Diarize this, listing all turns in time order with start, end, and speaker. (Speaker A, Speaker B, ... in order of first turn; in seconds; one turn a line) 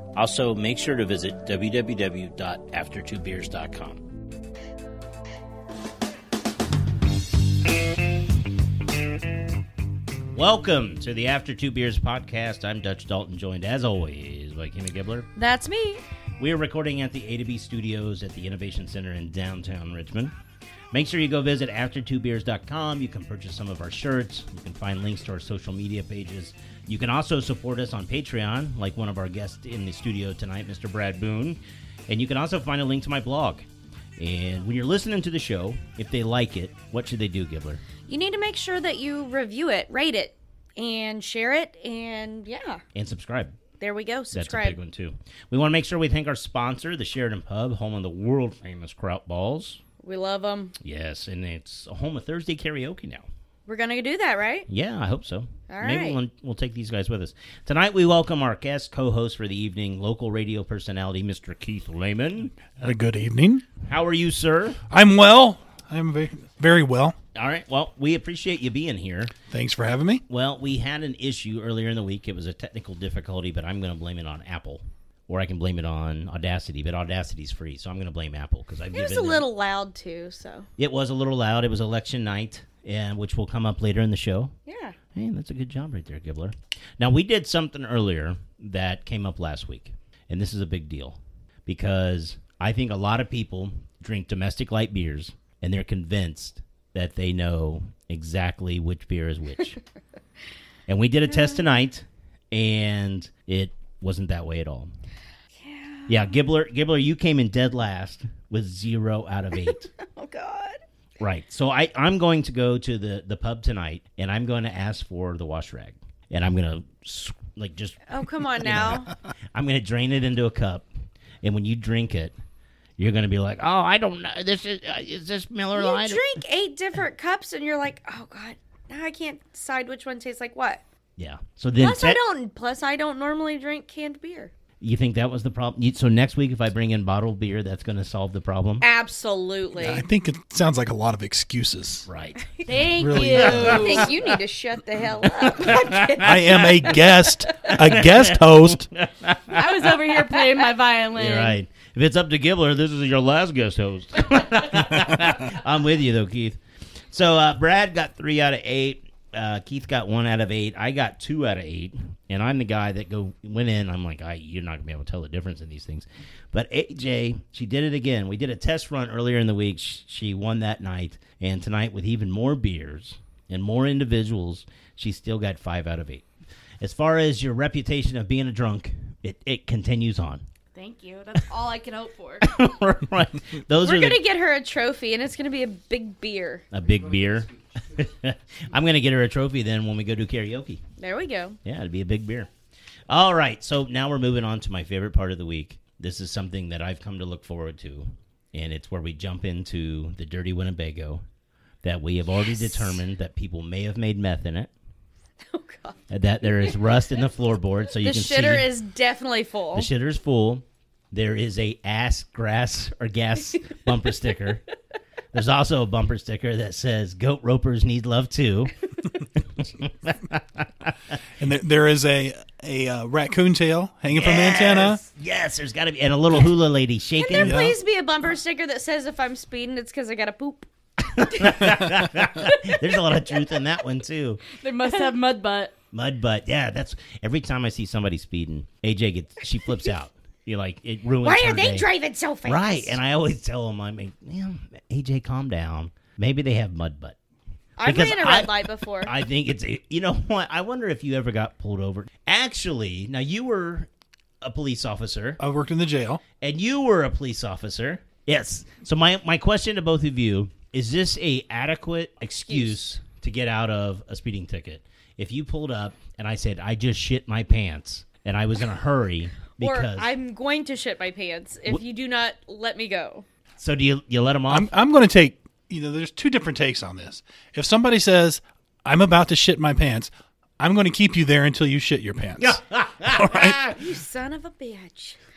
Speaker A: 0.1-4.0
Speaker A: 10.3-15.3
Speaker B: 15.3-16.0
Speaker A: 16.4-20.3
Speaker A: 20.9-33.7
Speaker A: 34.2-37.8
Speaker B: 38.1-42.8
Speaker A: 42.9-43.6
Speaker B: 43.8-44.8
Speaker A: 44.3-49.8
Speaker B: 50.0-50.7
Speaker A: 50.8-53.3
Speaker B: 53.6-54.7
Speaker A: 54.7-62.6
Speaker B: 55.7-56.2
Speaker C: 62.7-63.6
Speaker A: 63.9-64.8
Speaker C: 64.9-67.2
Speaker A: 67.3-69.3
Speaker C: 69.5-70.2
Speaker A: 70.3-79.4
Speaker B: 78.9-80.7
Speaker A: 80.8-84.5
Speaker B: 84.7-84.9
Speaker A: 85.1-99.8
Speaker A: 100.9-104.9
Speaker B: 101.3-101.6
Speaker B: 105.6-106.3
Speaker A: 106.1-109.9
Speaker B: 110.0-110.8
Speaker A: 111.2-118.0
Speaker B: 118.1-119.1
Speaker A: 118.6-120.9
Speaker A: 121.4-122.3
Speaker A: 123.0-126.2
Speaker B: 125.7-130.8
Speaker A: 131.2-132.2
Speaker B: 131.8-134.5
Speaker A: 134.8-138.8
Speaker B: 138.8-140.0
Speaker C: 139.8-142.1
Speaker A: 142.1-142.4
Speaker D: 142.7-144.1
Speaker C: 143.0-144.1
Speaker A: 143.4-143.8
Speaker B: 143.5-146.8
Speaker A: 145.2-146.9
Speaker C: 146.2-148.9
Speaker A: 147.6-149.9
Speaker D: 149.5-151.6
Speaker A: 151.1-156.6
Speaker A: 157.1-176.2
Speaker A: 176.8-180.4
Speaker D: 180.7-182.4
Speaker A: 182.4-184.2
Speaker B: 183.8-186.6
Speaker A: 186.7-190.8
Speaker B: 191.0-191.6
Speaker A: 191.6-192.5
Speaker A: 193.1-201.2
Speaker A: 201.8-204.7
Speaker B: 202.3-203.0
Speaker B: 205.5-206.8
Speaker A: 206.1-208.7
Speaker B: 207.9-209.9
Speaker A: 209.7-214.6
Speaker A: 215.3-218.7
Speaker A: 219.4-221.1
Speaker C: 221.4-225.0
Speaker A: 224.1-227.6
Speaker B: 227.2-230.7
Speaker C: 227.4-227.8
Speaker A: 231.1-234.4
Speaker B: 231.2-231.8
Speaker D: 234.6-235.7
Speaker A: 235.9-241.9
Speaker B: 241.2-242.9
Speaker A: 242.4-247.2
Speaker B: 247.8-249.1
Speaker A: 247.8-253.9
Speaker A: 254.4-255.4
Speaker C: 255.4-256.2
Speaker A: 256.4-270.1
Speaker B: 262.4-262.8
Speaker B: 269.6-273.2
Speaker A: 273.6-274.7
Speaker C: 274.5-283.6
Speaker A: 282.4-283.8
Speaker B: 283.7-285.2